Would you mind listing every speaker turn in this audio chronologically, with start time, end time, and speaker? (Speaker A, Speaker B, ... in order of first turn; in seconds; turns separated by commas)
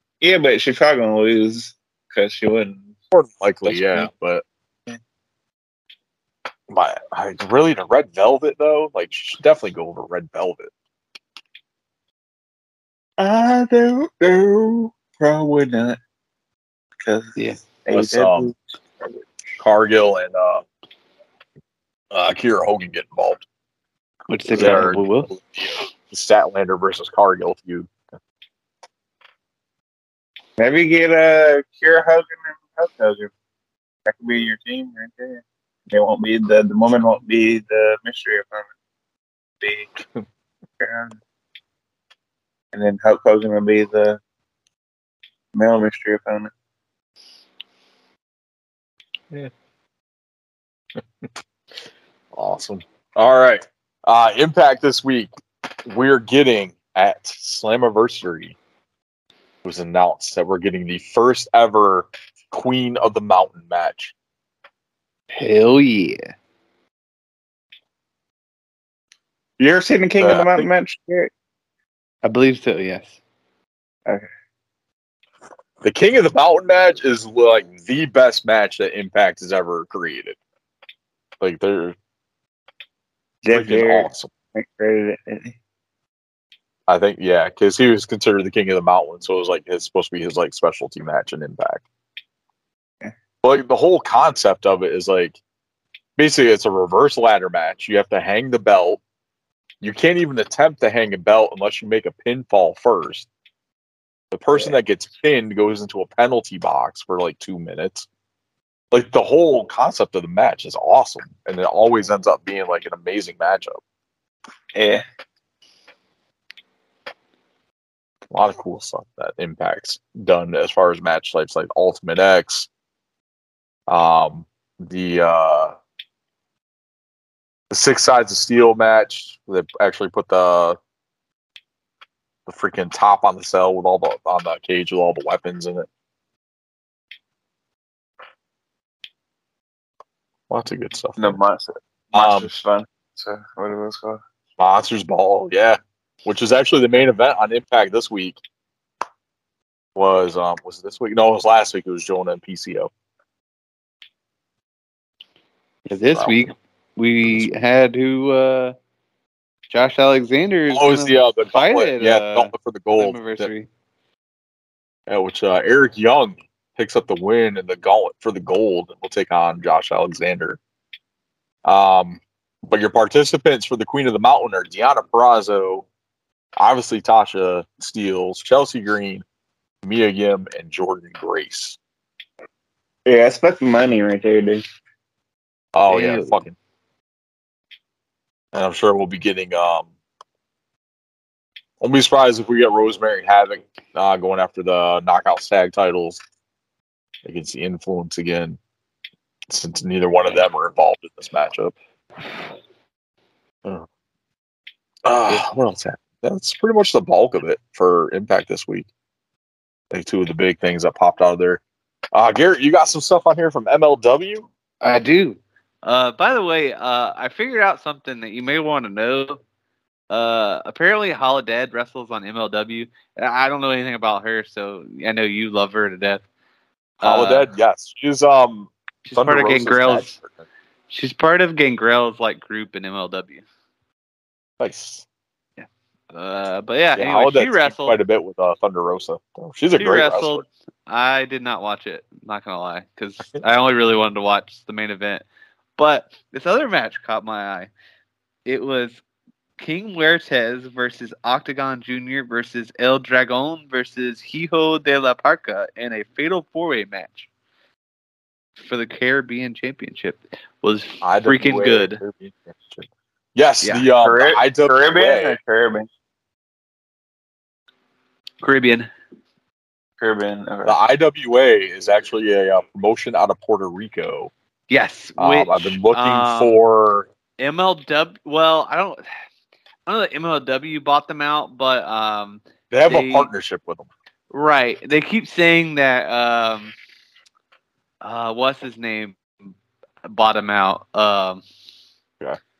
Speaker A: 0.2-2.9, Speaker B: 3.1-4.4, Speaker A: 3.7-4.1, Speaker B: 6.7-10.7, Speaker A: 13.2-16.0, Speaker A: 17.0-18.6, Speaker B: 17.9-18.5, Speaker B: 19.6-20.6, Speaker B: 22.1-23.4, Speaker C: 24.3-25.3, Speaker B: 24.5-27.9, Speaker A: 30.6-33.3, Speaker A: 34.0-38.7, Speaker A: 39.6-39.9, Speaker A: 40.8-41.2, Speaker A: 42.7-44.2, Speaker A: 45.5-46.5, Speaker B: 52.3-55.3, Speaker B: 55.9-58.6, Speaker B: 59.6-64.1, Speaker C: 65.4-66.3, Speaker A: 69.6-71.3, Speaker B: 70.2-70.7, Speaker C: 72.2-73.2, Speaker B: 75.8-80.4, Speaker B: 81.4-82.0, Speaker A: 83.4-85.6, Speaker B: 83.5-84.3, Speaker B: 86.9-91.8, Speaker B: 93.4-95.4, Speaker B: 96.2-99.0, Speaker B: 99.8-103.3, Speaker B: 104.3-108.1, Speaker B: 108.9-113.8, Speaker A: 114.8-115.0, Speaker B: 118.3-122.7, Speaker B: 123.9-125.8, Speaker B: 127.7-130.8, Speaker B: 132.4-135.9, Speaker B: 140.5-141.4, Speaker A: 141.2-144.2, Speaker B: 142.1-142.5, Speaker B: 144.6-148.4, Speaker B: 149.9-152.9, Speaker C: 155.9-158.8, Speaker B: 156.1-156.5, Speaker B: 157.2-157.5, Speaker C: 159.7-163.7, Speaker B: 160.7-163.5, Speaker B: 165.1-170.6, Speaker B: 171.7-175.9, Speaker B: 176.6-179.2, Speaker B: 179.8-181.8, Speaker A: 183.1-184.6, Speaker B: 185.7-186.6, Speaker C: 185.9-186.4, Speaker B: 188.5-189.9, Speaker B: 191.8-196.2, Speaker B: 197.2-198.6, Speaker B: 199.5-201.8, Speaker B: 205.1-208.9, Speaker B: 209.9-214.5, Speaker C: 214.8-219.4, Speaker C: 220.1-226.2, Speaker C: 227.0-227.5, Speaker B: 227.0-230.4, Speaker C: 229.1-230.2, Speaker C: 230.9-233.4, Speaker B: 234.6-235.1, Speaker C: 235.6-238.0, Speaker B: 236.9-240.4, Speaker C: 239.8-245.3, Speaker C: 245.8-247.7, Speaker C: 248.4-249.0, Speaker C: 249.6-257.3, Speaker C: 258.6-262.0, Speaker B: 261.0-265.4, Speaker A: 264.0-265.9, Speaker C: 268.4-268.9, Speaker A: 270.0-270.8, Speaker B: 270.7-274.3, Speaker C: 274.7-276.6, Speaker B: 275.2-277.1, Speaker C: 277.4-279.1, Speaker C: 279.9-283.3, Speaker B: 282.7-283.9, Speaker C: 284.3-286.7, Speaker C: 288.0-289.5, Speaker C: 290.1-291.4